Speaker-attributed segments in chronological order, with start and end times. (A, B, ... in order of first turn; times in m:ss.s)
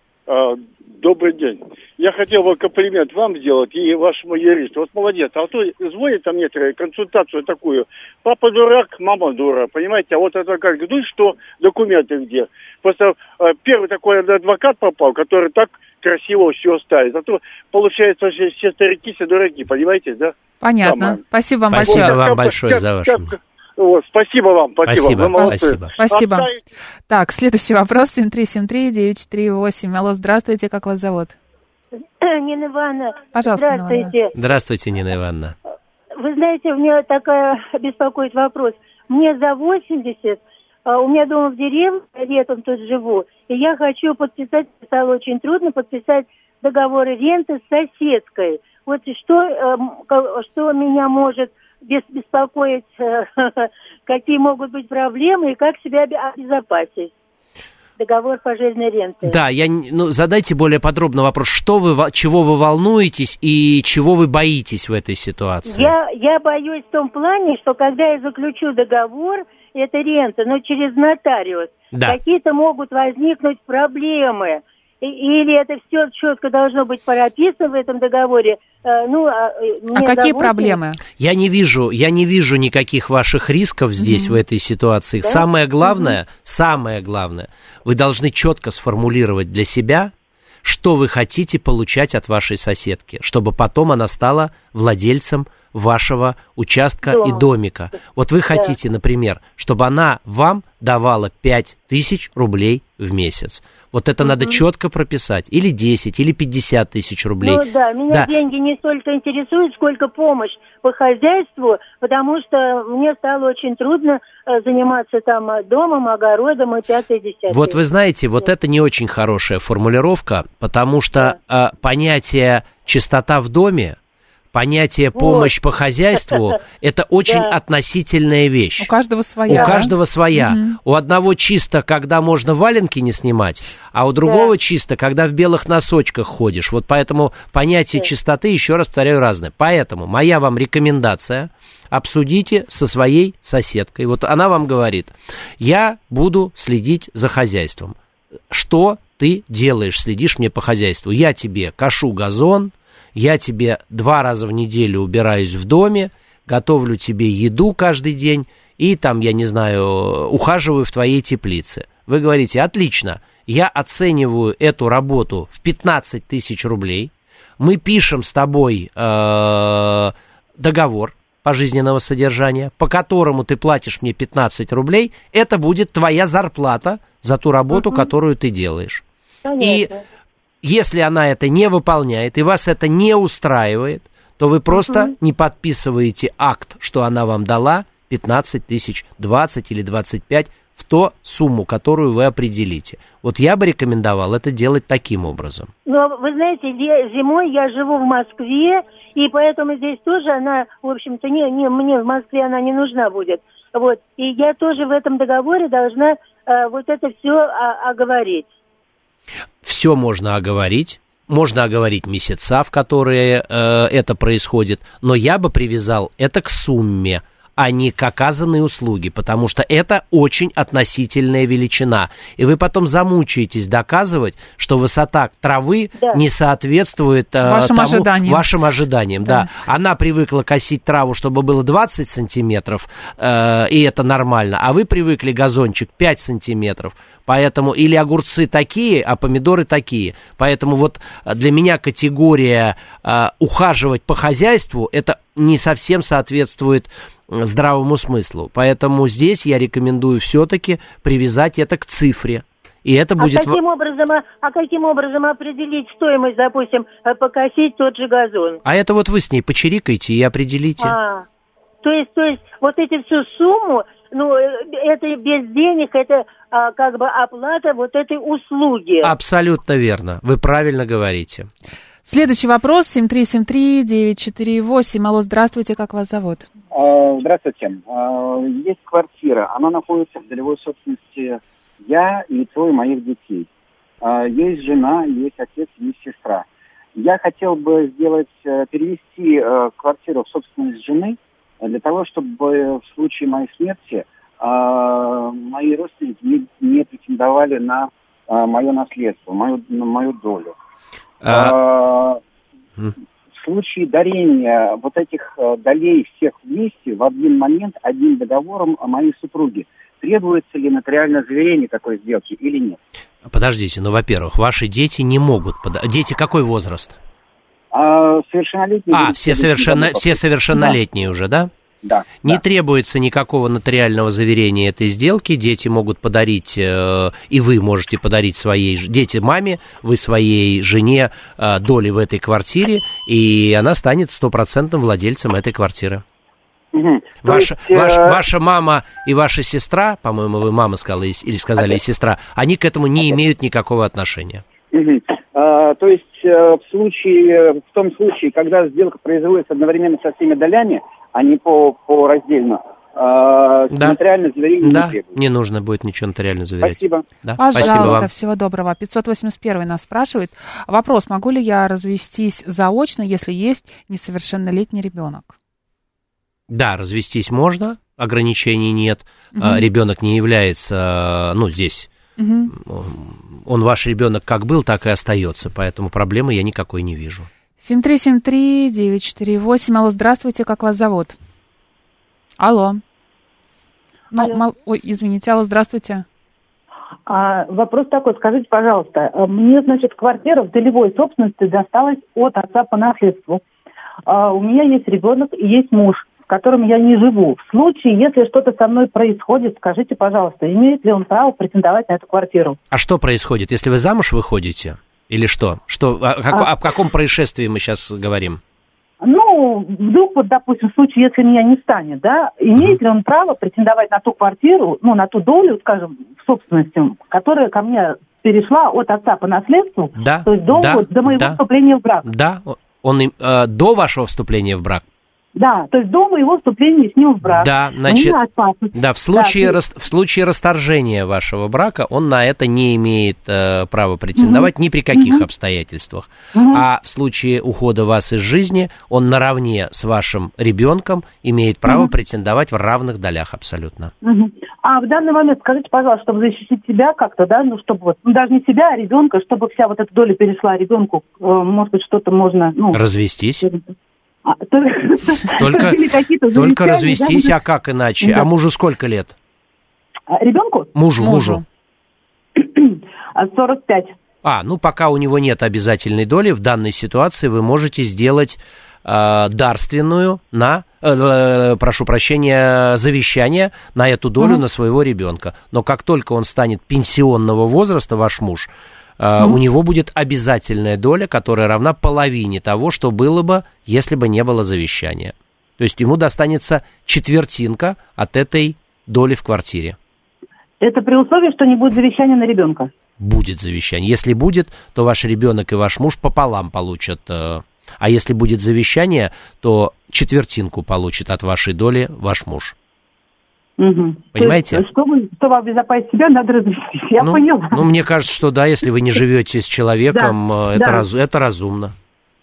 0:00.3-0:21.2 A
0:20.6-0:22.2 B
0:21.7-0:23.4 C
0:21.7-0:26.6 A
0:24.8-0:26.0 C
0:25.3-0:26.5 B
0:27.1-0:31.4 B
0:32.2-0:34.3 D
0:33.3-0:34.1 B
0:34.4-0:35.6 C
0:36.2-0:57.1 D
0:58.0-0:59.4 D
0:59.2-1:05.9 C
1:05.7-1:20.8 D
1:19.9-1:21.0 B
1:21.2-1:30.1 C
1:24.0-1:24.4 B
1:25.2-1:26.2 D
1:30.6-1:48.3 C
1:37.0-1:37.4 D
1:44.2-1:44.6 D
1:47.4-1:57.8 D
1:57.5-2:04.0 C
2:04.5-2:08.9 C
2:05.2-2:05.5 D
2:06.2-2:06.4 D
2:07.2-2:07.5 D
2:08.8-2:10.8 B
2:09.5-2:28.0 C
2:09.5-2:09.9 D
2:14.2-2:14.5 D
2:28.5-2:59.0 C
2:57.8-2:58.1 D
2:59.4-3:00.0 D
2:59.6-2:59.9 C
3:00.6-3:15.7 C
3:04.8-3:05.1 D
3:15.9-3:28.5 D
3:29.6-4:13.6 C
3:47.4-3:48.5 B
4:13.2-4:18.6 D
4:18.6-4:21.0 C
4:20.8-4:21.3 D
4:21.8-4:29.1 D
4:29.0-4:31.5 C
4:32.1-4:36.5 B
4:36.7-4:43.5 E
4:44.0-5:00.6 E
5:01.2-5:01.5 C
5:01.3-5:02.2 E
5:03.3-5:12.8 E
5:13.3-5:17.0 C
5:17.7-5:20.7 E
5:18.9-5:21.5 C
5:21.8-5:22.4 E
5:22.2-5:36.0 C
5:36.7-5:38.2 E
5:37.2-5:44.4 C
5:44.7-5:55.1 E
5:53.7-5:54.0 C
5:54.6-5:58.1 C
5:56.6-5:58.0 E
5:57.4-6:05.3 B
6:06.5-6:11.9 C
6:09.3-6:09.7 B
6:12.2-6:12.5 B
6:12.5-6:17.3 C
6:17.6-6:21.2 B
6:22.4-6:22.8 B
6:24.1-6:26.0 B
6:27.1-6:33.4 F
6:34.1-6:42.6 F
6:42.7-6:48.4 C
6:49.0-7:02.1 F
7:00.0-7:01.4 C
7:02.0-7:04.8 C
7:05.4-7:09.6 F
7:07.2-7:08.2 C
7:08.7-7:23.9 C
7:14.2-7:15.2 F
7:16.4-7:16.6 F
7:24.0-7:32.8 F
7:32.7-7:33.5 C
7:34.3-7:37.3 F
7:35.4-7:39.2 C
7:38.0-7:38.3 F
7:40.1-7:40.7 F
7:40.7-7:41.4 C
7:41.0-7:41.4 B
7:42.4-7:43.9 F
7:44.2-8:09.8 C
8:10.6-8:12.7 F
8:13.0-8:22.6 C
8:23.6-8:27.6 F
8:24.2-8:24.6 C
8:27.0-8:31.8 C
8:29.9-8:30.8 F